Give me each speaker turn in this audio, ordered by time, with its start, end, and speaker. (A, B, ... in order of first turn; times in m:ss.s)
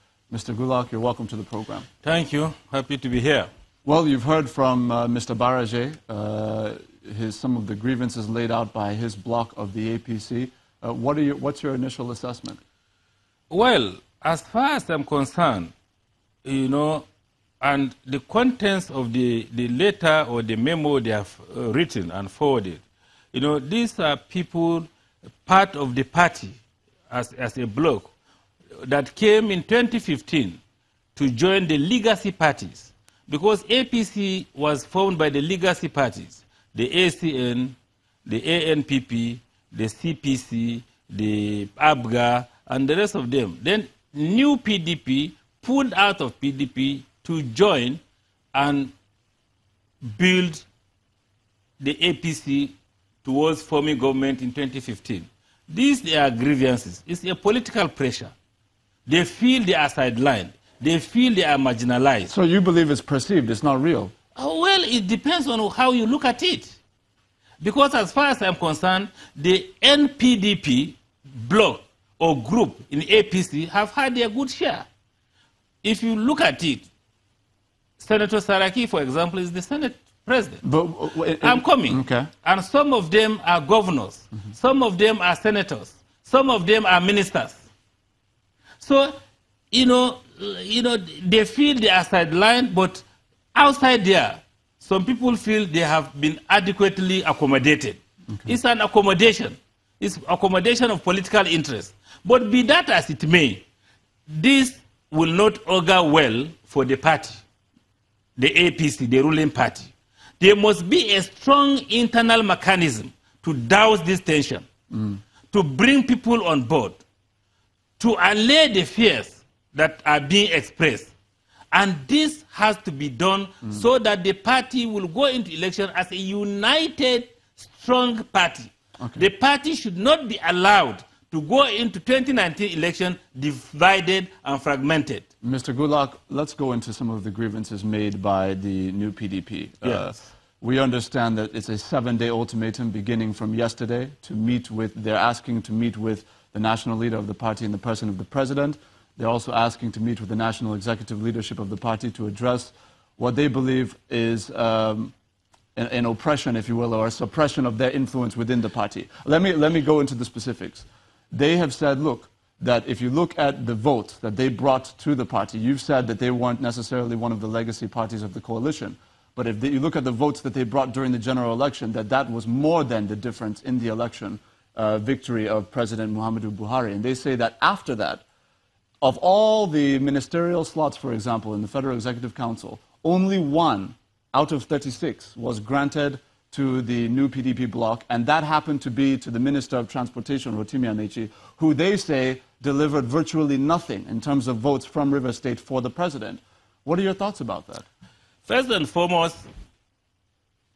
0:00.3-0:01.9 A
0:02.0-0:03.5 B
0:03.8-0:12.6 A
0:13.5-0:15.7 B
0:16.4-0:17.0 B
0:17.6-0:22.8 B
0:23.3-0:24.9 B
0:25.4-0:26.6 B
0:27.1-0:28.1 B
0:28.8-0:30.6 B
0:31.2-0:48.0 B
0:48.5-0:48.9 B
0:50.0-0:50.6 B
0:51.8-0:52.7 B
0:53.2-0:58.3 B
0:59.0-1:02.3 B
1:02.3-1:04.1 A
1:04.4-1:06.8 B
1:07.6-1:14.8 B
1:15.8-1:16.8 B
1:18.0-1:20.6 B
1:20.6-1:22.3 A
1:21.4-1:27.6 B
1:28.8-1:29.2 B
1:29.7-1:43.6 B
1:44.3-1:47.4 B
1:48.4-1:54.6 B
1:54.9-1:55.2 A
1:55.5-1:57.0 B
1:58.0-2:01.1 B
2:01.7-2:15.2 B
2:09.0-2:09.2 A
2:15.4-2:35.1 A
2:19.8-2:20.2 B
2:35.8-2:58.2 A
2:59.0-3:17.8 A
3:18.4-3:19.5 B